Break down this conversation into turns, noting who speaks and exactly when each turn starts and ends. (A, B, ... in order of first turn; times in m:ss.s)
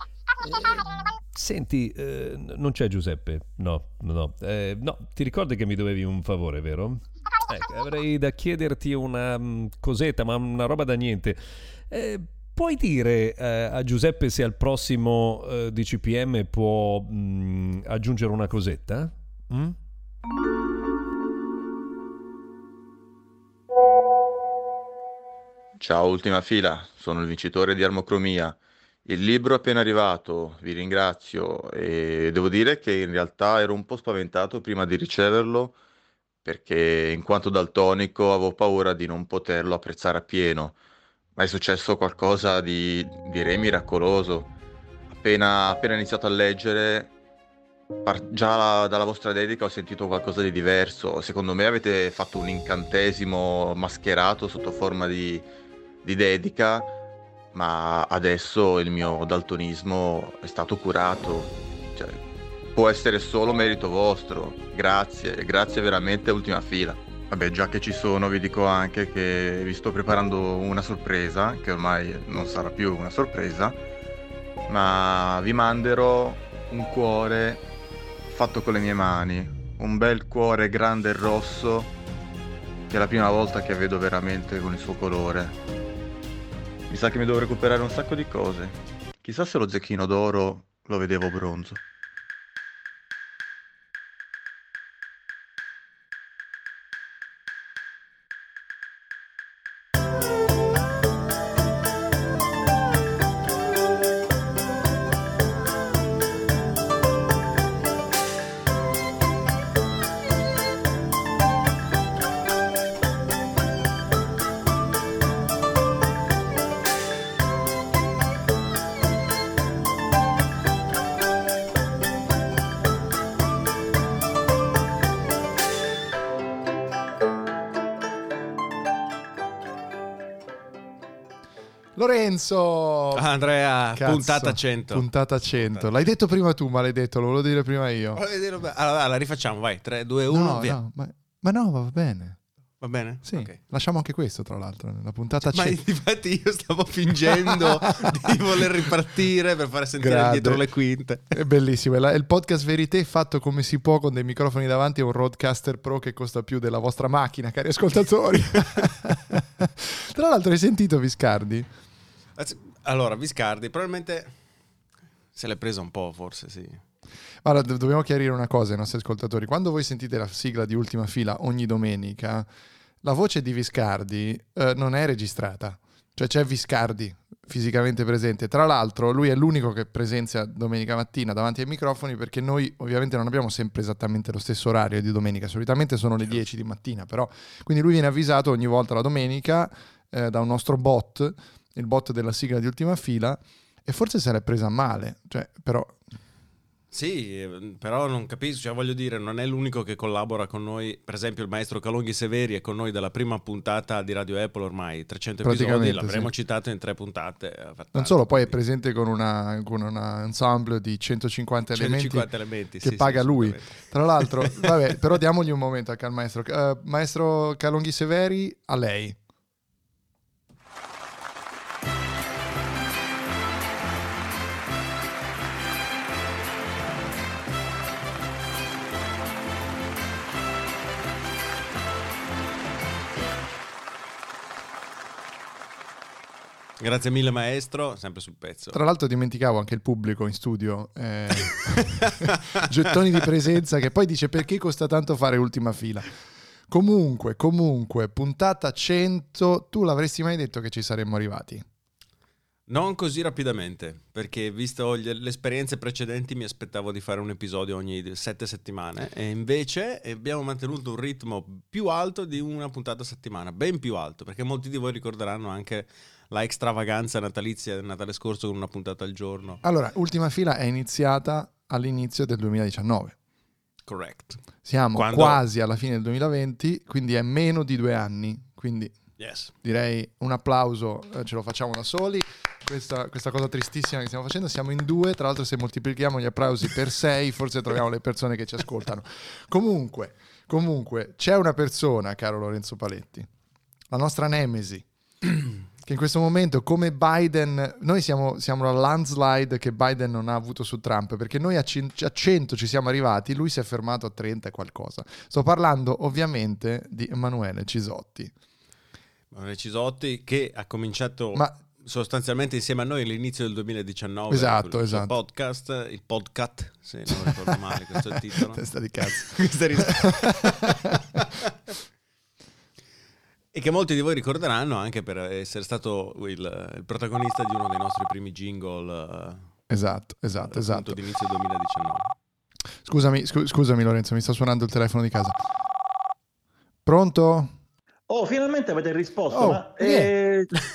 0:00.4-0:19.8 A
0:25.8-0:35.7 B
0:36.4-0:40.8 B
0:41.4-0:44.5 B
0:45.1-0:47.1 B
0:48.0-0:55.4 B
0:56.0-0:56.9 B
0:57.5-1:02.2 B
1:02.7-1:13.8 B
1:14.7-1:17.6 B
1:18.3-1:21.9 B
1:22.9-1:25.5 B
1:26.9-1:31.8 B
2:12.0-2:13.2 C
2:13.1-2:15.0 D
2:14.0-2:18.2 C
2:15.6-2:15.9 D
2:18.1-2:20.8 D
2:20.3-2:22.4 C
2:22.8-2:23.6 D
2:23.2-2:25.8 C
2:25.5-2:31.2 D
2:27.3-2:28.1 C
2:30.0-2:30.6 C
2:31.3-2:41.7 C
2:42.4-2:44.3 D
2:45.3-2:46.8 D
2:47.4-2:52.5 C
2:53.0-3:16.0 C
3:16.9-3:28.6 D
3:25.4-3:26.3 C
3:27.9-3:32.3 C
3:31.7-3:34.8 D
3:32.8-3:39.2 C
3:56.8-3:58.8 D
3:58.7-4:06.1 C
4:06.7-4:11.6 C
4:12.7-4:29.6 D
4:29.6-4:33.1 C
4:33.9-4:34.4 D
4:34.6-4:38.9 C
4:34.9-4:35.4 D
4:39.2-4:39.5 D
4:39.6-4:53.3 C
4:53.9-4:54.8 C
4:55.8-5:08.3 C
5:09.3-5:21.2 D
5:14.3-5:15.1 C
5:17.1-5:17.5 C
5:18.5-5:20.5 C
5:23.5-5:29.5 D
5:29.7-5:31.0 C
5:30.4-5:32.1 D
5:32.8-5:35.4 C
5:36.8-5:37.5 C
5:38.1-5:40.5 E
5:39.3-5:40.1 C